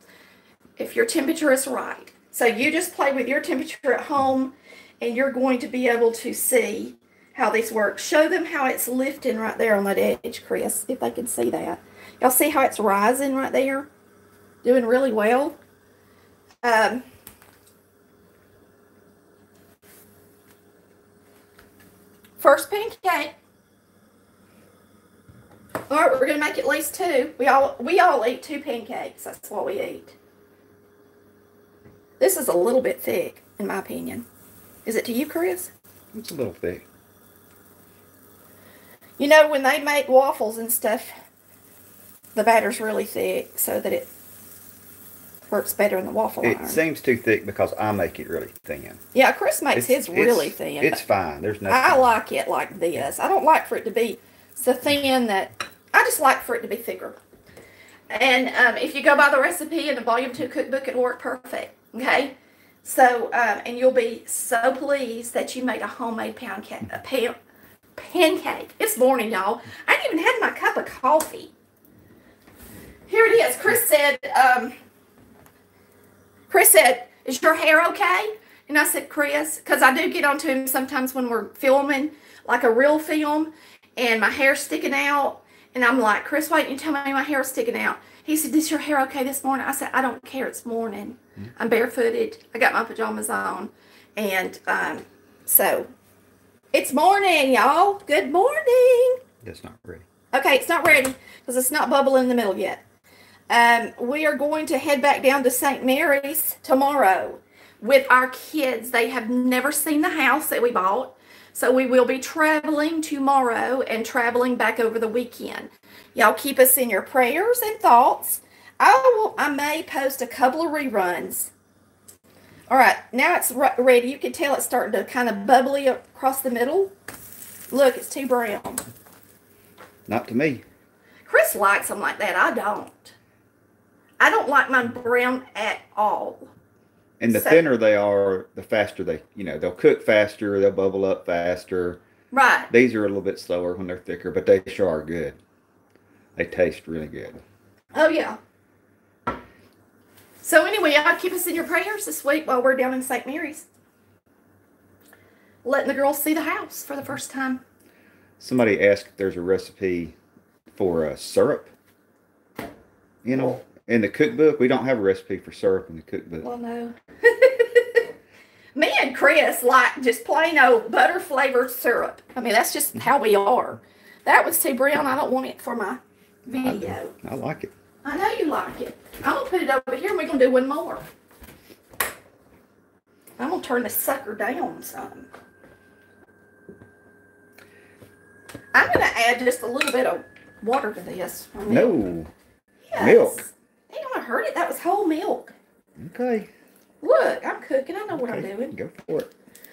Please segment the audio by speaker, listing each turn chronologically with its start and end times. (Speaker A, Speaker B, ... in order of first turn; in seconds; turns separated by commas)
Speaker A: 0.8-13.9, Speaker A: 14.6-15.6, Speaker A: 16.6-17.0, Speaker A: 22.4-23.3, Speaker A: 25.9-30.1, Speaker A: 32.2-34.2, Speaker A: 34.8-35.7, Speaker B: 36.1-36.8, Speaker A: 39.2-41.1, Speaker A: 42.3-44.1, Speaker A: 45.5-46.8, Speaker B: 46.4-49.0, Speaker A: 49.1-51.0, Speaker B: 49.7-52.1, Speaker A: 51.7-57.2, Speaker A: 58.1-67.3, Speaker A: 68.0-71.5, Speaker A: 73.1-74.7, Speaker A: 76.5-95.9, Speaker A: 96.7-99.2, Speaker B: 99.4-100.0, Speaker A: 100.3-102.8, Speaker A: 103.5-121.5, Speaker A: 122.7-126.9, Speaker A: 127.7-128.8, Speaker B: 130.1-130.6, Speaker A: 131.2-133.1, Speaker A: 134.2-136.5, Speaker B: 137.2-142.0, Speaker A: 137.3-137.6, Speaker A: 142.3-142.7, Speaker B: 142.7-145.4, Speaker B: 146.3-147.4, Speaker A: 147.9-148.4, Speaker A: 150.4-153.7, Speaker A: 155.6-157.6, Speaker B: 158.4-160.2, Speaker B: 160.7-161.7, Speaker B: 163.2-166.5, Speaker A: 163.3-163.6, Speaker A: 166.4-168.1, Speaker A: 168.7-177.1, Speaker B: 176.6-177.7, Speaker A: 178.0-181.0, Speaker A: 183.4-185.3, Speaker A: 188.7-191.9, Speaker B: 191.7-192.3, Speaker A: 192.9-195.5, Speaker B: 193.0-193.4, Speaker B: 196.0-196.5, Speaker A: 197.0-198.7, Speaker B: 198.1-199.3